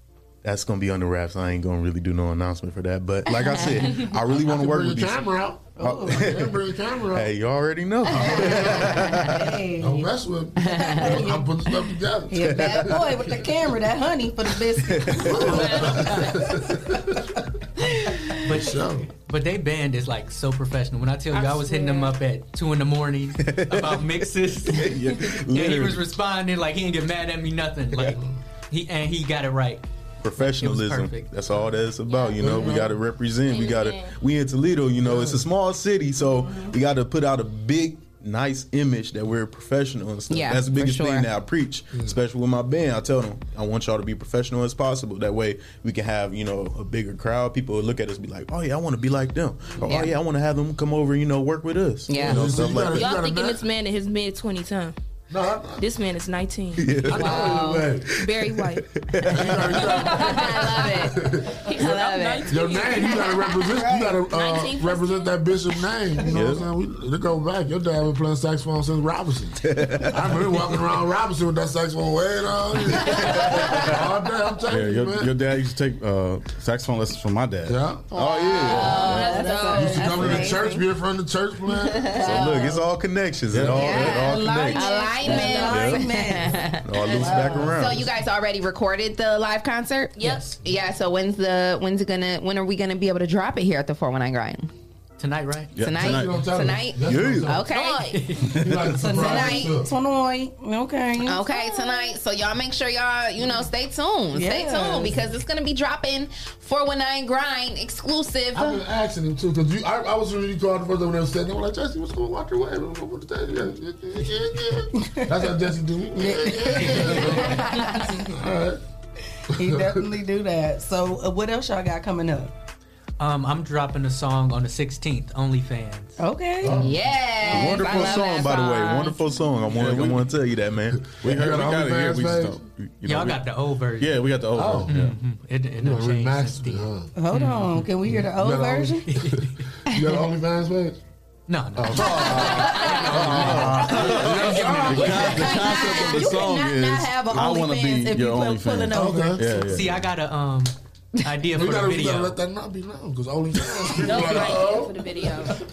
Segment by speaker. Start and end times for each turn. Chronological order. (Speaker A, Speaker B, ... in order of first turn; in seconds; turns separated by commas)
Speaker A: 0.4-5.2, Speaker B: 4.3-7.3, Speaker C: 5.8-6.3, Speaker A: 5.8-6.6, Speaker A: 7.1-9.4, Speaker B: 8.1-9.0, Speaker C: 8.1-10.1, Speaker B: 9.8-12.9, Speaker C: 10.6-11.5, Speaker D: 10.6-11.2, Speaker C: 12.3-16.4, Speaker A: 12.4-12.9, Speaker A: 14.9-15.7, Speaker B: 15.1-17.2, Speaker E: 15.4-16.2, Speaker F: 18.4-24.9, Speaker B: 18.5-19.1, Speaker E: 21.3-22.1, Speaker A: 23.4-26.1, Speaker F: 25.5-29.8, Speaker A: 30.2-53.1, Speaker F: 30.4-31.4, Speaker E: 32.1-32.6, Speaker B: 32.4-32.9, Speaker E: 33.5-34.2, Speaker B: 35.0-35.4, Speaker D: 40.3-41.3, Speaker D: 49.8-50.1, Speaker D: 52.1-52.8, Speaker B: 52.2-53.6, Speaker E: 52.9-54.9, Speaker B: 55.3-55.8, Speaker E: 55.8-56.9, Speaker A: 56.8-59.9, Speaker B: 57.1-58.1, Speaker D: 57.1-57.9, Speaker E: 58.2-58.8, Speaker B: 59.3-61.5, Speaker E: 59.8-61.0, Speaker D: 60.3-61.1, Speaker E: 61.6-63.6, Speaker D: 61.8-62.6, Speaker B: 62.5-75.3, Speaker C: 63.1-64.2, Speaker E: 64.3-65.3, Speaker C: 66.2-66.5, Speaker A: 66.3-66.6, Speaker A: 69.7-70.4, Speaker G: 74.7-77.8, Speaker B: 77.7-78.1, Speaker D: 78.1-80.8, Speaker A: 78.2-79.2, Speaker E: 78.5-80.2, Speaker C: 79.3-79.7, Speaker B: 79.7-82.2, Speaker D: 81.8-82.8, Speaker A: 82.2-86.1, Speaker B: 83.6-83.9, Speaker D: 83.7-94.7, Speaker C: 84.4-87.8, Speaker A: 86.8-88.1, Speaker E: 90.2-90.5, Speaker F: 95.2-95.7, Speaker G: 95.8-96.5, Speaker D: 95.8-98.1, Speaker B: 95.9-97.7, Speaker A: 97.1-97.6, Speaker E: 97.6-98.2, Speaker F: 98.1-98.5, Speaker B: 98.6-99.9, Speaker C: 98.9-101.7, Speaker D: 99.2-99.7, Speaker D: 101.2-108.8, Speaker C: 104.3-105.2, Speaker B: 108.5-118.8, Speaker C: 115.0-115.3, Speaker C: 116.2-118.1, Speaker C: 119.5-122.5, Speaker B: 119.6-120.0, Speaker F: 123.2-126.2, Speaker C: 126.2-126.9, Speaker B: 126.6-127.1, Speaker D: 126.8-129.1, Speaker C: 127.4-127.9, Speaker A: 127.5-131.0, Speaker E: 127.9-128.2, Speaker E: 128.7-129.1, Speaker G: 129.7-130.2, Speaker B: 131.1-132.6, Speaker G: 131.2-133.3, Speaker A: 132.8-133.2, Speaker F: 133.0-134.2, Speaker G: 134.0-135.2, Speaker B: 134.5-134.9, Speaker F: 134.9-137.8, Speaker B: 135.8-137.1, Speaker C: 137.2-139.1, Speaker B: 138.1-141.0, Speaker F: 139.1-139.6, Speaker F: 141.5-143.7, Speaker G: 141.8-150.1, Speaker B: 141.9-142.5, Speaker A: 142.4-145.3, Speaker B: 143.1-145.4, Speaker F: 144.4-144.9, Speaker C: 145.1-149.7, Speaker B: 148.9-149.5, Speaker F: 149.6-152.4, Speaker B: 151.5-155.4, Speaker E: 154.0-155.6